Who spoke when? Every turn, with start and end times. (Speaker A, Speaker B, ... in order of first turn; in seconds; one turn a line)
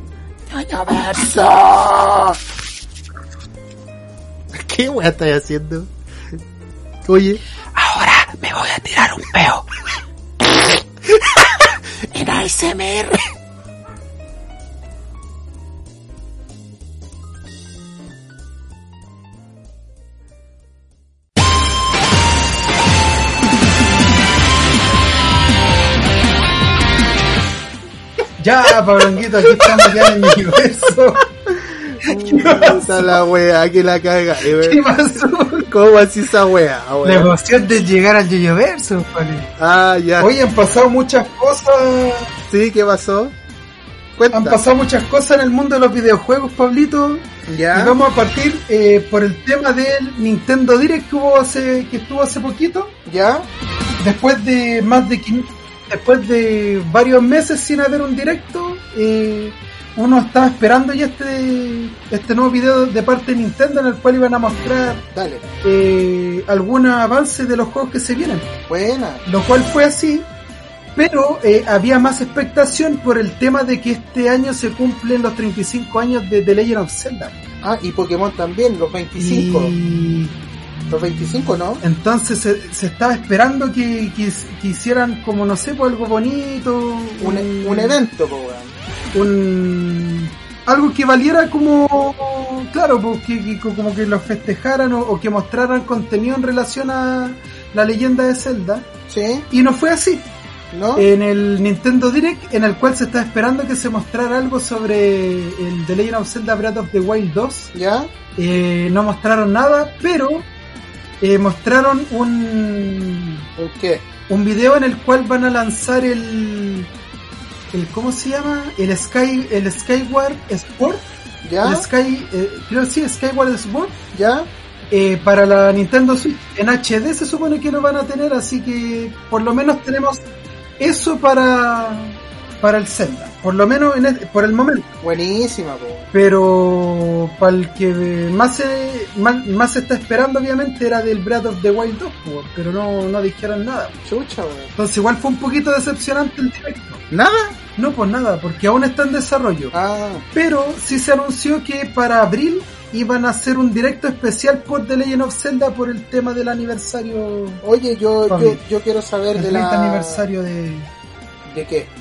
Speaker A: 0.5-2.4
Speaker B: 0.9-1.2
Speaker A: 4.5-5.9
Speaker A: 7.0-7.4
Speaker B: 7.7-9.7
Speaker B: 11.4-13.2
Speaker C: 28.4-31.3
Speaker A: 29.6-30.2
Speaker A: 31.4-34.9
Speaker C: 32.0-33.2
Speaker C: 34.6-35.7
Speaker A: 35.7-37.3
Speaker C: 37.0-39.5
Speaker A: 39.6-40.3
Speaker C: 40.2-42.3
Speaker A: 42.5-43.3
Speaker A: 44.1-44.6
Speaker C: 44.3-52.9
Speaker A: 47.5-48.0
Speaker A: 53.0-53.5
Speaker C: 54.0-65.1
Speaker A: 65.1-65.4
Speaker C: 65.6-68.5
Speaker A: 68.7-69.2
Speaker C: 69.2-70.3
Speaker C: 71.0-77.3
Speaker A: 77.6-79.7
Speaker C: 79.2-80.4
Speaker A: 80.9-81.8
Speaker C: 81.8-88.0
Speaker A: 87.2-88.7
Speaker C: 89.1-98.9
Speaker A: 99.1-99.5
Speaker C: 99.5-100.3
Speaker A: 100.7-101.1
Speaker C: 101.0-107.7
Speaker A: 107.7-108.1
Speaker C: 108.3-110.5
Speaker C: 111.2-113.5
Speaker A: 113.6-114.0
Speaker C: 114.3-116.9
Speaker C: 117.7-121.1
Speaker A: 121.4-121.9
Speaker C: 121.6-124.0
Speaker A: 124.1-124.5
Speaker C: 124.9-130.2
Speaker C: 130.8-134.9
Speaker A: 135.0-136.1
Speaker C: 136.1-144.0
Speaker A: 144.1-144.7
Speaker C: 144.8-147.0
Speaker A: 147.1-147.5
Speaker C: 147.8-149.7
Speaker A: 149.7-150.2
Speaker C: 150.3-157.6
Speaker A: 157.6-160.2
Speaker C: 158.3-158.6
Speaker C: 159.3-160.9
Speaker A: 161.4-161.9